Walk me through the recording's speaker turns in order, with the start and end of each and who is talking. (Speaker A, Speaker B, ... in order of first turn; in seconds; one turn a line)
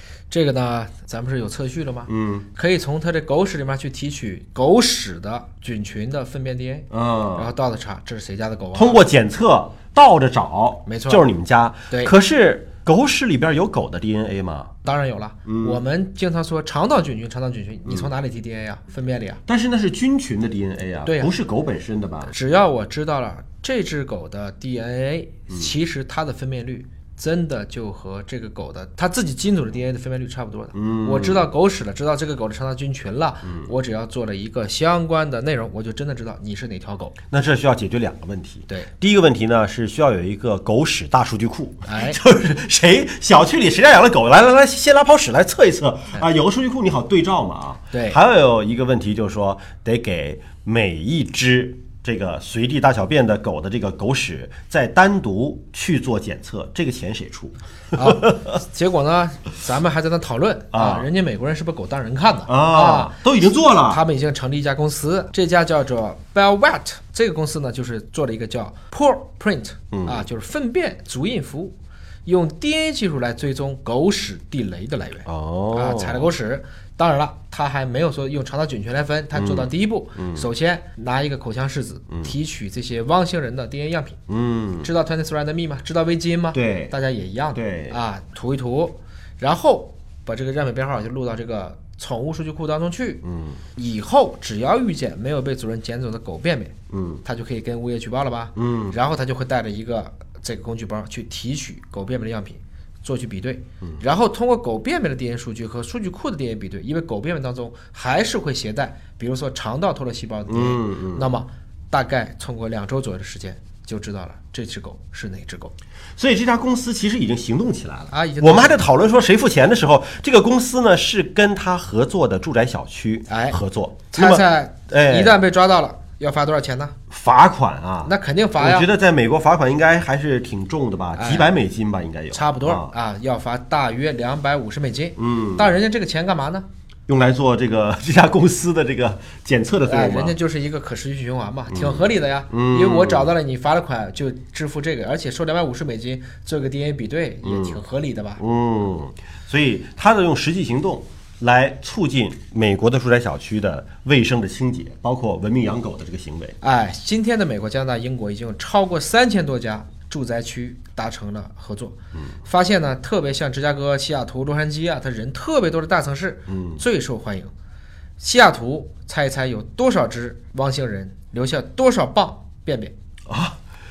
Speaker A: 0.3-9.0
Speaker B: 2.1-2.5
Speaker B: 6.9-7.5
Speaker B: 8.7-14.7
Speaker A: 10.8-11.2
Speaker A: 14.8-19.4
Speaker B: 15.4-15.8
Speaker B: 19.5-22.3
Speaker A: 21.1-21.3
Speaker A: 22.3-37.1
Speaker B: 30.7-31.5
Speaker B: 33.5-33.7
Speaker B: 37.3-58.4
Speaker A: 41.9-42.2
Speaker A: 47.9-48.2
Speaker A: 57.9-63.1
Speaker B: 60.7-61.1
Speaker B: 62.5-64.0
Speaker A: 63.9-84.2
Speaker B: 69.9-70.2
Speaker B: 75.2-76.3
Speaker B: 79.3-80.5
Speaker B: 84.3-84.9
Speaker A: 84.8-93.2
Speaker B: 86.5-86.9
Speaker B: 87.5-88.0
Speaker B: 93.2-93.6
Speaker A: 93.8-96.7
Speaker B: 96.9-97.2
Speaker A: 97.2-115.7
Speaker B: 98.5-99.0
Speaker B: 110.5-111.3
Speaker B: 116.2-125.4
Speaker A: 118.1-118.8
Speaker A: 123.3-123.6
Speaker A: 124.1-126.9
Speaker B: 127.1-132.9
Speaker A: 128.0-128.9
Speaker A: 131.1-131.5
Speaker A: 132.3-136.7
Speaker B: 135.2-135.7
Speaker B: 137.1-140.4
Speaker A: 139.8-148.4
Speaker B: 141.7-143.3
Speaker B: 147.4-147.8
Speaker B: 148.4-156.6
Speaker A: 156.6-167.5
Speaker B: 166.5-166.8
Speaker A: 168.2-172.9
Speaker B: 173.3-173.6